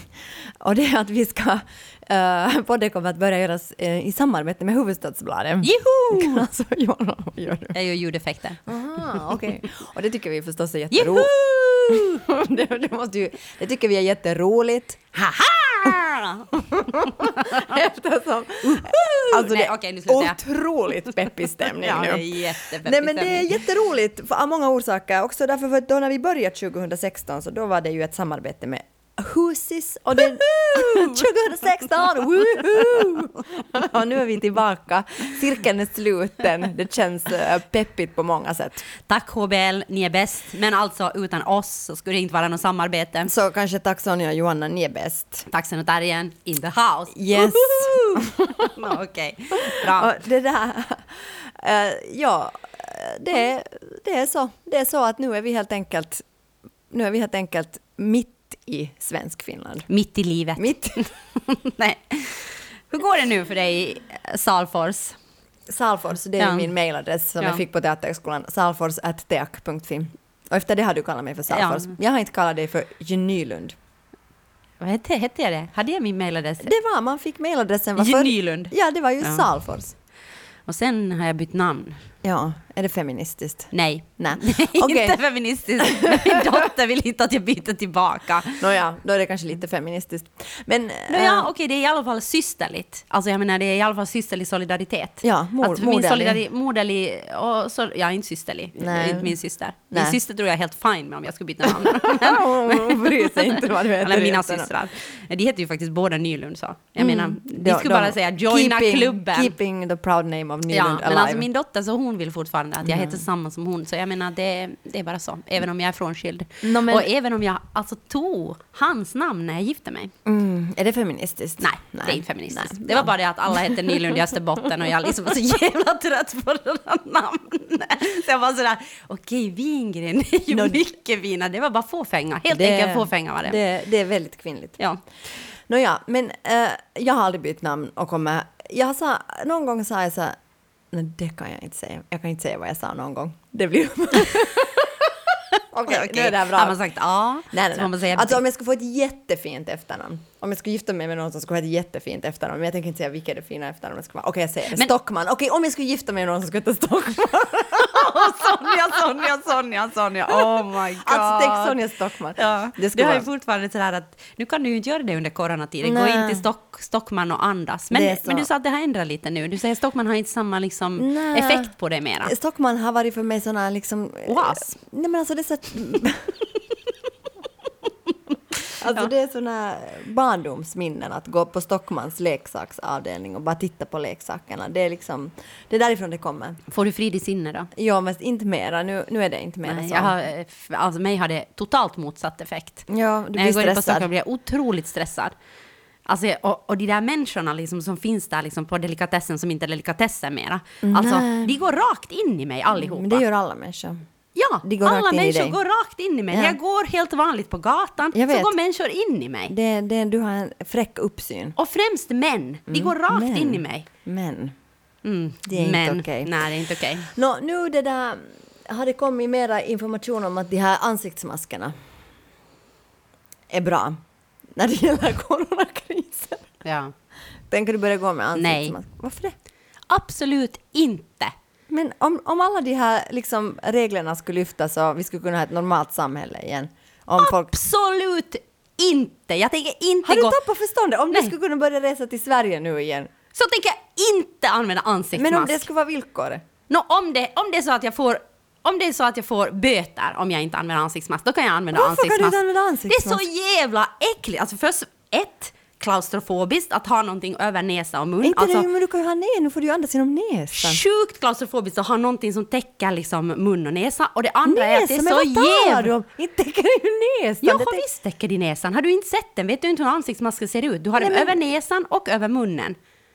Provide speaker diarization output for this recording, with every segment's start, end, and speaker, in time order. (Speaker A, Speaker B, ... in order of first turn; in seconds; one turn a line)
Speaker A: 0.5-7.8
Speaker B: 5.6-6.4
Speaker B: 7.7-8.6
Speaker A: 8.7-11.3
Speaker B: 10.9-12.2
Speaker A: 11.9-15.1
Speaker B: 15.2-17.8
Speaker A: 16.5-38.9
Speaker B: 18.6-20.4
Speaker B: 21.7-23.6
Speaker B: 30.5-31.2
Speaker B: 32.7-33.2
Speaker B: 39.1-43.3
Speaker A: 43.3-45.5
Speaker B: 45.5-50.1
Speaker A: 47.1-48.7
Speaker A: 49.7-56.2
Speaker A: 56.9-59.9
Speaker B: 59.9-65.2
Speaker A: 60.6-61.0
Speaker A: 65.7-73.8
Speaker B: 66.4-66.7
Speaker B: 71.5-72.0
Speaker B: 74.8-76.7
Speaker A: 76.6-80.0
Speaker B: 78.0-79.5
Speaker B: 80.7-82.1
Speaker A: 82.2-85.2
Speaker B: 83.7-88.6
Speaker A: 85.8-86.1
Speaker A: 88.6-91.5
Speaker B: 91.1-109.5
Speaker A: 95.2-96.4
Speaker A: 98.8-99.3
Speaker A: 99.9-100.2
Speaker A: 101.8-104.7
Speaker A: 107.0-111.5
Speaker B: 110.7-120.1
Speaker A: 112.8-113.2
Speaker A: 116.6-117.1
Speaker A: 120.2-125.1
Speaker B: 121.6-133.6
Speaker A: 130.5-130.8
Speaker A: 132.5-134.8
Speaker A: 135.7-140.4
Speaker A: 140.9-145.1
Speaker A: 145.7-146.8
Speaker B: 145.9-148.4
Speaker A: 147.5-159.3
Speaker B: 157.8-161.8
Speaker A: 160.3-163.3
Speaker B: 162.4-172.3
Speaker A: 165.8-166.4
Speaker A: 167.9-168.5
Speaker A: 171.0-171.7
Speaker A: 172.2-176.4
Speaker B: 174.3-174.7
Speaker A: 178.8-186.6
Speaker B: 186.7-187.7
Speaker A: 187.8-190.1
Speaker B: 189.7-195.3
Speaker A: 192.9-194.1
Speaker B: 196.1-203.2
Speaker A: 200.8-201.5
Speaker A: 202.7-204.1
Speaker B: 204.3-209.5
Speaker A: 204.6-205.6
Speaker A: 206.3-206.6
Speaker A: 208.1-208.6
Speaker A: 209.5-211.6
Speaker B: 211.6-213.9
Speaker A: 212.7-214.5
Speaker B: 215.0-217.1
Speaker A: 215.5-216.4
Speaker A: 217.1-221.7
Speaker A: 223.5-224.0
Speaker A: 224.5-226.5
Speaker B: 226.6-226.9
Speaker A: 227.5-229.3
Speaker B: 228.4-228.8
Speaker B: 229.9-231.3
Speaker A: 231.7-237.5
Speaker B: 237.2-240.4
Speaker A: 240.1-243.1
Speaker B: 243.3-245.7
Speaker A: 245.2-246.4
Speaker B: 246.7-252.4
Speaker A: 251.7-253.2
Speaker B: 252.9-258.7
Speaker A: 258.2-260.8
Speaker B: 260.5-265.9
Speaker A: 264.5-267.8
Speaker B: 267.4-272.8
Speaker A: 271.0-271.4